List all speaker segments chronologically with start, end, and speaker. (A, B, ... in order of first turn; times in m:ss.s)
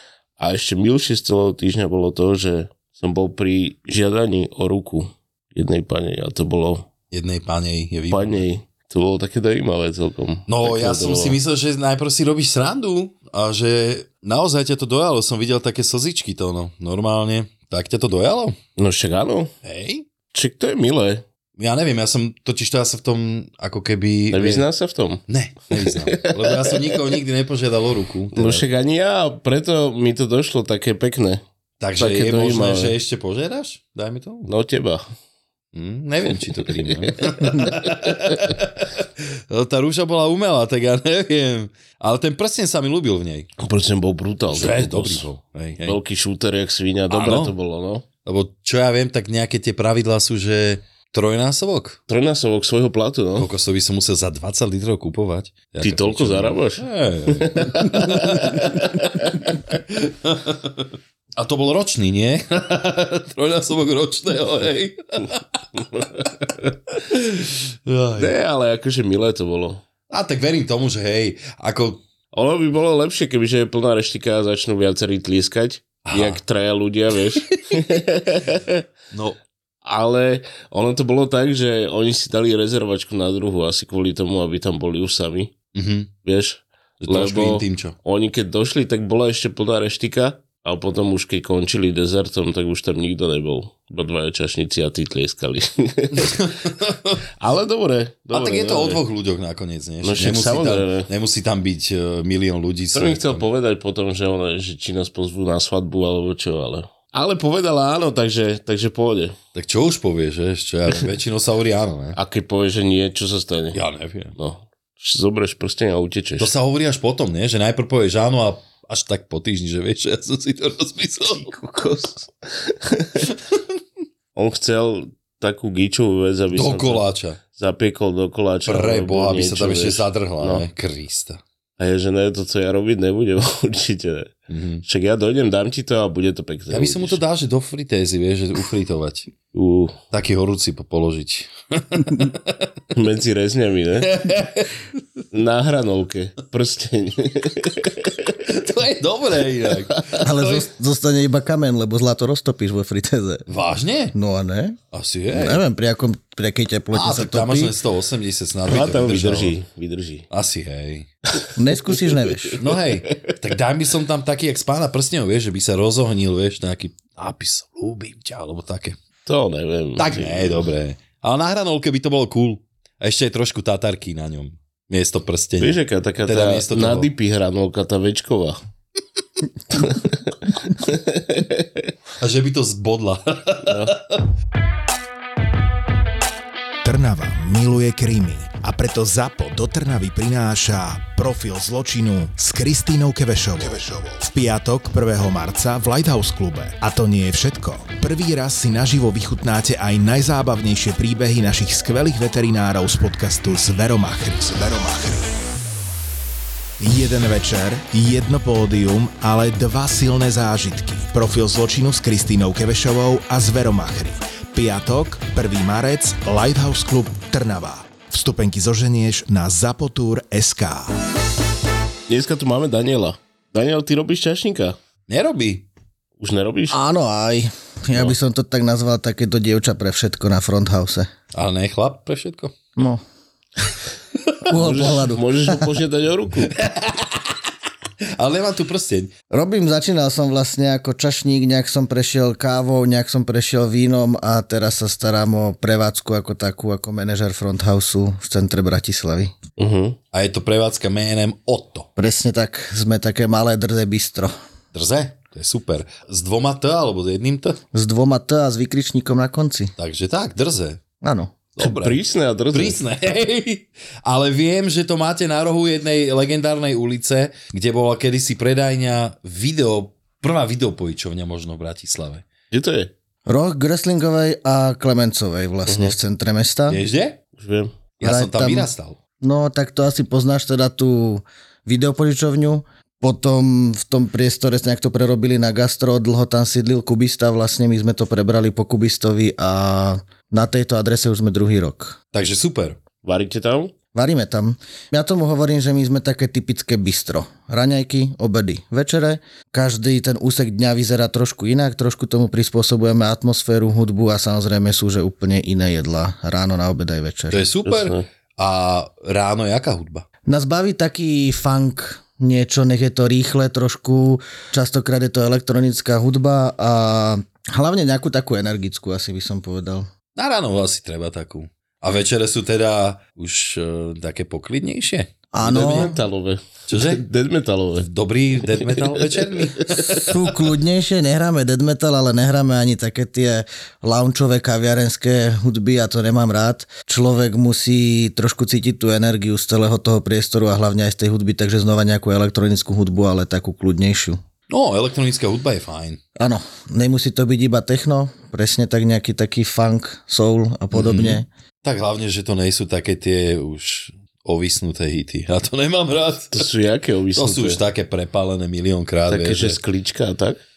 0:00.4-0:06.9 A
0:07.1-0:08.4 B
0:08.1-0:11.4 A
0:10.5-0:18.6 B
0:18.8-0:19.5 A
0:19.6-0:20.0 B
0:20.3-0:21.2 A
0:21.6-0:24.6 B
0:24.3-0:25.2 A
0:25.3-0:28.6 B
0:25.8-0:26.9 A
0:28.3-0:31.4 A
0:31.8-0:34.5 B
0:32.0-0:32.9 A
0:34.5-0:35.0 A
0:35.7-0:43.5 B
0:36.3-0:38.4 A
0:43.6-0:45.3 A
0:44.5-0:46.0 B
0:45.8-0:48.0 A
0:47.1-0:47.5 B
0:48.2-0:52.0 B
0:52.1-0:53.5 A
0:53.4-1:05.6 B
0:55.8-0:59.7 A
1:05.7-1:06.7 A
1:06.9-1:08.3 B
1:08.2-1:09.8 A
1:10.1-1:12.0 B
1:12.3-1:18.8 A
1:16.0-1:16.4 B
1:19.1-1:19.4 B
1:19.8-1:25.5 A
1:25.7-1:26.1 B
1:26.2-1:36.4 A
1:27.0-1:28.0 B
1:36.2-1:37.2 B
1:37.4-1:39.0 A
1:38.3-1:43.4 B
1:40.0-1:41.1 A
1:42.9-1:49.4 A
1:49.5-1:52.2 B
1:52.1-1:53.8 A
1:53.7-1:54.3 B
1:54.4-1:56.5 A
1:56.4-2:01.5 B
2:01.3-2:03.3 A
2:04.3-2:10.6 A
2:06.5-2:07.4 B
2:08.7-2:11.4 B
2:11.8-2:14.3 A
2:14.5-2:14.8 B
2:14.8-2:17.2 A
2:16.7-2:19.3 B
2:19.5-2:20.0 A
2:20.1-2:22.7 B
2:22.9-2:24.1 A
2:24.0-2:24.8 B
2:25.3-2:28.4 A
2:28.4-2:30.7 B
2:30.2-2:33.4 C
2:33.5-2:34.1 B
2:34.1-2:34.8 C
2:34.9-2:35.6 B
2:35.3-2:37.7 C
2:36.9-2:39.6 B
2:38.7-2:40.2 A
2:40.3-2:41.1 B
2:41.6-2:42.6 C
2:41.9-2:42.5 A
2:42.6-2:49.0 B
2:49.2-2:50.7 A
2:50.0-2:57.1 B
2:55.6-2:58.6 A
2:59.7-3:01.9 A
3:02.2-3:04.2 B
3:03.6-3:03.9 A
3:06.8-3:25.4 D
3:26.8-3:41.0 D
3:42.1-3:44.8 A
3:45.1-3:45.6 B
3:46.2-3:46.8 A
3:46.7-3:51.1 C
3:51.3-3:52.5 B
3:52.8-3:53.0 C
3:54.4-3:55.6 C
3:54.5-3:56.5 A
3:56.5-3:57.3 B
3:58.2-3:59.1 B
3:59.3-4:09.3 C
4:09.6-4:10.0 A
4:10.1-4:11.9 B
4:12.0-4:14.3 C
4:14.7-4:17.6 B
4:17.7-4:19.7 C
4:19.8-4:20.8 B
4:21.0-4:21.4 C
4:21.6-4:22.0 B
4:21.6-4:22.8 A
4:22.5-4:32.2 B
4:32.5-4:32.9 A
4:33.3-4:36.8 C
4:35.7-4:35.9 A
4:36.7-4:37.2 B
4:37.4-4:37.7 A
4:38.0-4:39.0 B
4:38.0-4:38.7 C
4:39.2-4:52.0 C
4:52.1-4:52.8 B
4:53.0-4:53.7 A
4:53.9-5:07.4 C
5:07.3-5:10.0 B
5:07.6-5:08.0 A
5:10.3-5:19.9 C
5:20.2-5:26.0 B
5:25.3-5:25.9 C
5:25.4-5:27.9 A
5:26.7-5:27.0 B
5:27.8-5:30.2 B
5:28.5-5:29.0 A
5:29.7-5:30.0 A
5:30.1-5:44.2 C
5:44.5-5:46.0 B
5:46.2-5:51.3 C
5:50.7-5:56.4 B
5:56.3-5:57.6 A
5:57.2-5:59.6 B
5:59.1-6:00.4 A